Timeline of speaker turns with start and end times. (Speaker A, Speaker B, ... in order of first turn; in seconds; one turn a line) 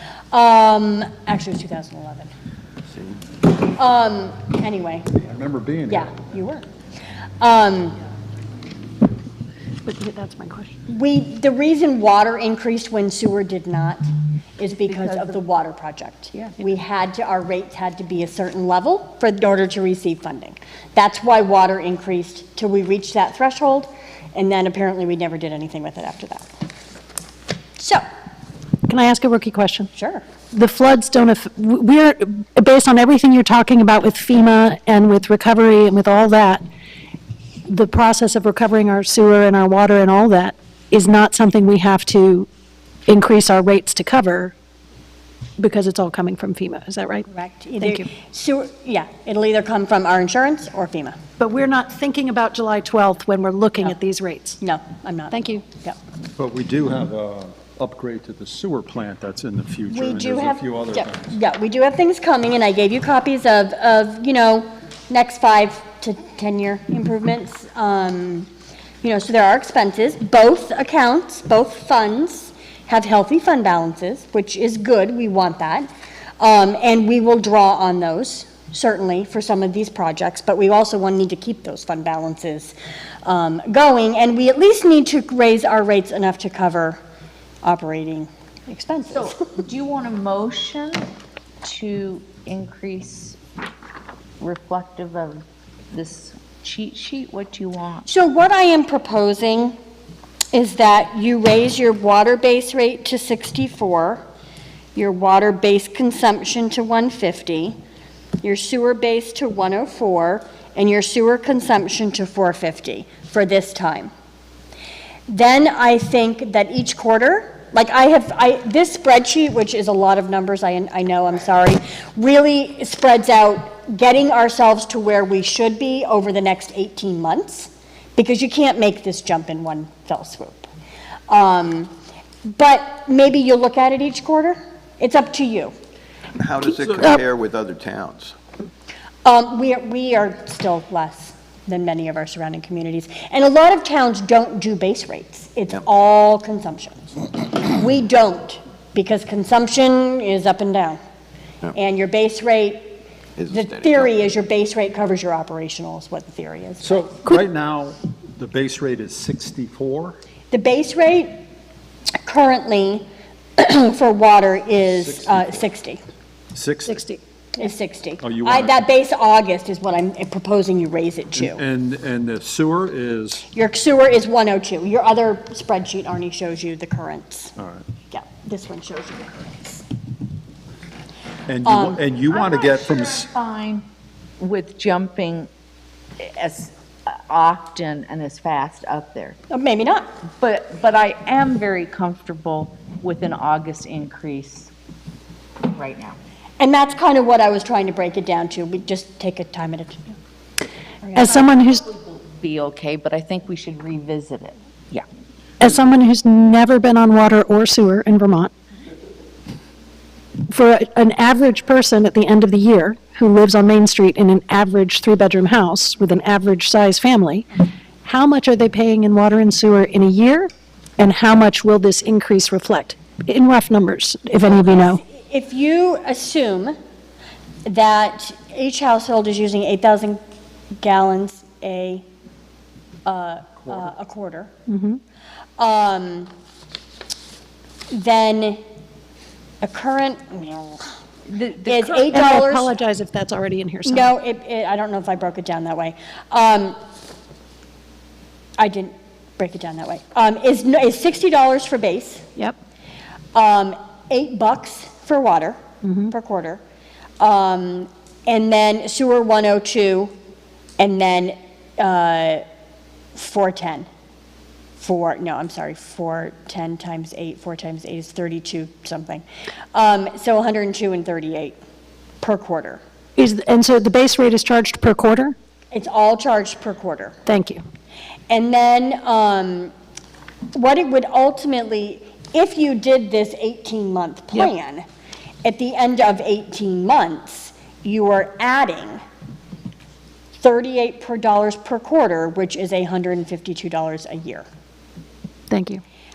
Speaker A: 0.3-2.3
Speaker A: 3.7-5.1
Speaker B: 5.1-6.3
Speaker A: 5.9-6.7
Speaker A: 7.4-8.0
Speaker C: 9.8-10.7
Speaker A: 10.9-14.0
Speaker A: 14.6-26.5
Speaker D: 14.9-15.4
Speaker A: 27.8-28.0
Speaker C: 28.9-29.9
Speaker A: 29.9-30.2
Speaker C: 30.5-36.6
Speaker C: 37.7-42.5
Speaker C: 43.1-44.5
Speaker C: 45.6-47.3
Speaker A: 47.3-51.2
Speaker C: 47.8-48.1
Speaker C: 51.4-54.6
Speaker A: 54.6-56.0
Speaker C: 55.3-55.6
Speaker B: 56.4-61.3
Speaker A: 59.9-68.5
Speaker A: 69.0-82.7
Speaker A: 83.2-87.0
Speaker A: 87.6-89.3
Speaker D: 89.1-91.1
Speaker D: 91.6-93.4
Speaker D: 94.4-98.1
Speaker A: 98.0-99.8
Speaker A: 100.5-104.2
Speaker A: 104.9-107.8
Speaker A: 108.4-114.1
Speaker A: 115.3-130.7
Speaker A: 131.3-131.9
Speaker A: 132.4-135.7
Speaker E: 136.4-138.3
Speaker A: 139.2-151.0
Speaker A: 151.7-152.9
Speaker E: 153.4-154.2
Speaker A: 153.5-157.1
Speaker B: 156.8-160.2
Speaker A: 160.5-161.4
Speaker A: 162.2-163.1
Speaker A: 163.6-166.0
Speaker B: 164.9-165.6
Speaker B: 166.5-167.0
Speaker C: 166.9-167.2
Speaker A: 167.6-171.6
Speaker B: 168.2-168.7
Speaker B: 171.3-173.4
Speaker A: 173.5-177.6
Speaker A: 178.1-179.8
Speaker B: 181.5-183.3
Speaker A: 181.6-182.0
Speaker D: 182.3-183.8
Speaker D: 184.4-185.5
Speaker D: 186.2-189.4
Speaker A: 189.5-190.1
Speaker D: 190.4-194.7
Speaker D: 195.6-196.2
Speaker A: 196.6-200.1
Speaker C: 201.1-201.8
Speaker D: 201.3-205.0
Speaker C: 205.6-208.5
Speaker C: 210.5-217.4
Speaker C: 218.0-225.0
Speaker A: 224.4-226.8
Speaker A: 227.7-230.2
Speaker A: 230.8-232.0
Speaker A: 233.1-234.5
Speaker C: 234.7-235.0
Speaker A: 235.6-236.3
Speaker A: 237.9-238.6
Speaker A: 239.6-240.8
Speaker A: 241.5-242.7
Speaker C: 241.7-244.1
Speaker A: 243.8-246.8
Speaker A: 248.6-252.3
Speaker A: 253.3-256.6
Speaker C: 255.8-256.1
Speaker A: 257.2-260.1
Speaker A: 260.8-262.4
Speaker A: 263.1-263.9
Speaker A: 264.8-271.6
Speaker A: 272.2-272.8
Speaker C: 273.2-275.3
Speaker A: 275.7-277.1
Speaker C: 277.2-277.6
Speaker A: 278.3-279.7
Speaker A: 280.5-284.8
Speaker A: 285.4-289.0
Speaker A: 290.4-294.4
Speaker C: 295.5-295.8